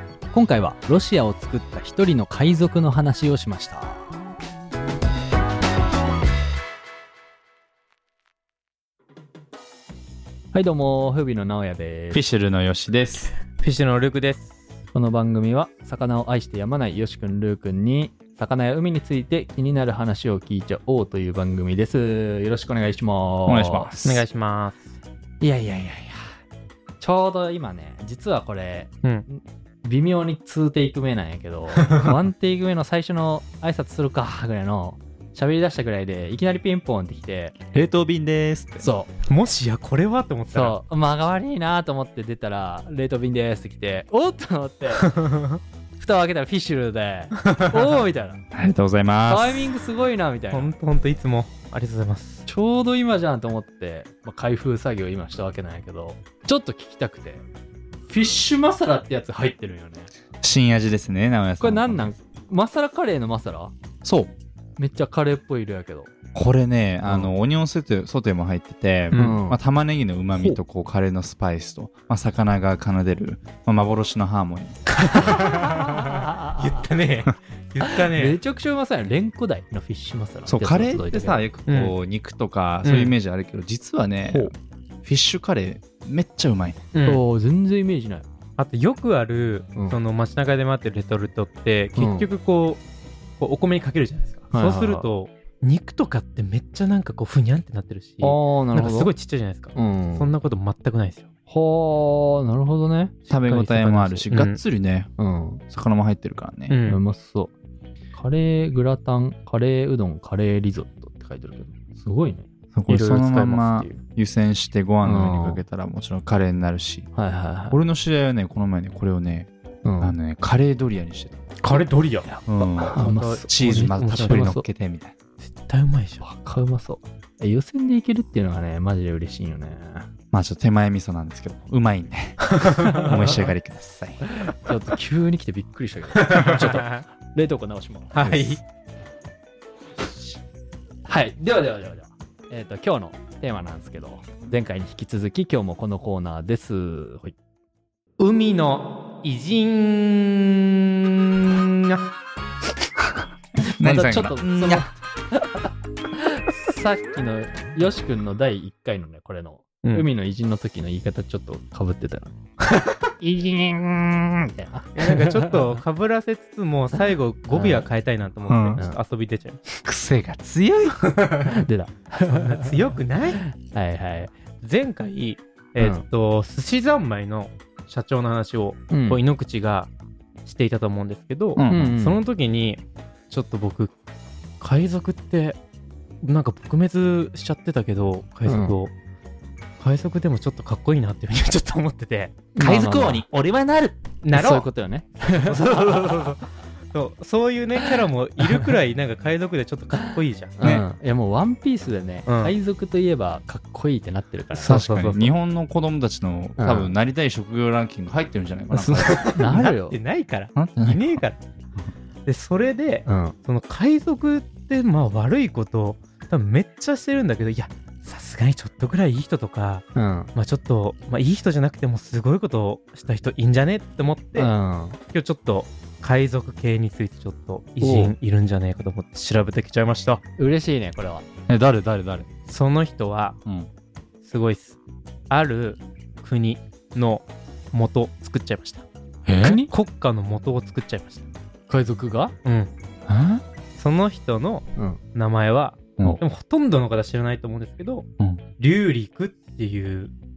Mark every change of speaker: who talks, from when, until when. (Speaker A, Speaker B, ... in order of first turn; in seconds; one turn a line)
Speaker A: 0.3-4.1
Speaker A: 10.5-12.2
Speaker B: 12.1-13.3
Speaker C: 13.6-14.6
Speaker A: 14.9-23.9
Speaker B: 23.4-24.2
Speaker C: 24.0-24.9
Speaker A: 25.4-26.3
Speaker A: 27.0-37.5
Speaker B: 37.7-38.9
Speaker A: 38.8-39.1
Speaker C: 39.2-40.8
Speaker A: 40.5-45.1
Speaker C: 45.1-45.6
Speaker A: 46.0-48.5
Speaker B: 48.5-49.7
Speaker A: 49.2-50.7
Speaker C: 50.5-52.5
Speaker A: 52.5-57.4
Speaker A: 58.1-60.1
Speaker B: 60.4-62.1
Speaker A: 61.6-63.7
Speaker B: 64.0-64.3
Speaker A: 64.8-66.1
Speaker B: 66.3-74.8
Speaker A: 67.0-67.3
Speaker C: 69.1-69.4
Speaker A: 69.1-69.6
Speaker A: 70.3-70.6
Speaker C: 75.0-78.4
Speaker A: 75.1-76.8
Speaker A: 78.0-81.5
Speaker B: 80.5-86.8
Speaker C: 81.7-81.9
Speaker C: 82.8-83.2
Speaker A: 84.2-84.5
Speaker C: 86.9-87.2
Speaker A: 87.0-88.3
Speaker C: 88.6-92.8
Speaker A: 92.0-92.3
Speaker C: 93.4-101.3
Speaker A: 94.5-95.1
Speaker A: 98.2-99.1
Speaker A: 99.8-100.3
Speaker A: 101.5-103.4
Speaker B: 103.3-105.1
Speaker C: 103.4-104.6
Speaker A: 105.2-105.6
Speaker B: 105.7-106.8
Speaker C: 106.7-107.0
Speaker A: 106.8-107.5
Speaker A: 108.1-112.5
Speaker B: 112.7-117.1
Speaker C: 112.9-114.0
Speaker A: 115.0-115.7
Speaker A: 117.2-117.8
Speaker B: 117.7-119.5
Speaker A: 119.8-120.2
Speaker B: 120.0-121.5
Speaker C: 121.6-124.6
Speaker A: 122.2-124.7
Speaker B: 122.5-125.1
Speaker C: 125.4-126.2
Speaker A: 126.2-130.1
Speaker B: 130.3-134.2
Speaker C: 132.5-133.2
Speaker A: 132.9-133.4
Speaker A: 134.2-138.6
Speaker C: 136.1-137.0
Speaker C: 138.1-138.6
Speaker A: 141.1-147.3
Speaker C: 148.2-152.0
Speaker B: 153.8-154.9
Speaker A: 153.8-155.6
Speaker A: 156.2-165.8
Speaker C: 159.8-160.1
Speaker C: 164.9-169.6
Speaker A: 167.5-167.9
Speaker B: 168.5-168.8
Speaker B: 169.7-171.3
Speaker C: 171.2-171.5
Speaker A: 171.4-172.9
Speaker C: 172.3-173.4
Speaker A: 173.4-174.3
Speaker C: 174.6-179.9
Speaker A: 175.8-176.0
Speaker A: 178.9-179.2
Speaker C: 180.4-183.9
Speaker B: 181.6-181.9
Speaker A: 181.7-182.2
Speaker C: 184.6-185.6
Speaker C: 186.2-188.9
Speaker A: 188.5-188.8
Speaker C: 189.8-192.5
Speaker A: 192.6-193.3
Speaker B: 192.6-194.0
Speaker C: 194.2-194.7
Speaker A: 194.3-196.2
Speaker C: 195.2-200.8
Speaker A: 200.6-204.8
Speaker B: 200.6-200.9
Speaker C: 202.2-202.6
Speaker C: 204.5-205.3
Speaker B: 204.7-209.7
Speaker A: 206.6-206.9
Speaker C: 208.7-211.4
Speaker A: 209.1-210.0
Speaker B: 210.6-211.2
Speaker C: 212.2-224.5
Speaker A: 213.1-213.3
Speaker A: 219.9-220.3
Speaker A: 224.3-225.0
Speaker C: 225.1-230.2
Speaker A: 227.8-228.1
Speaker A: 230.4-231.2
Speaker B: 231.5-232.3
Speaker C: 232.5-233.4
Speaker C: 234.2-234.8
Speaker C: 235.3-238.9
Speaker B: 239.2-239.6
Speaker A: 239.4-239.7
Speaker C: 239.6-241.3
Speaker A: 241.7-242.3
Speaker C: 242.4-242.7
Speaker B: 243.1-243.4
Speaker C: 243.7-248.1
Speaker C: 248.6-250.1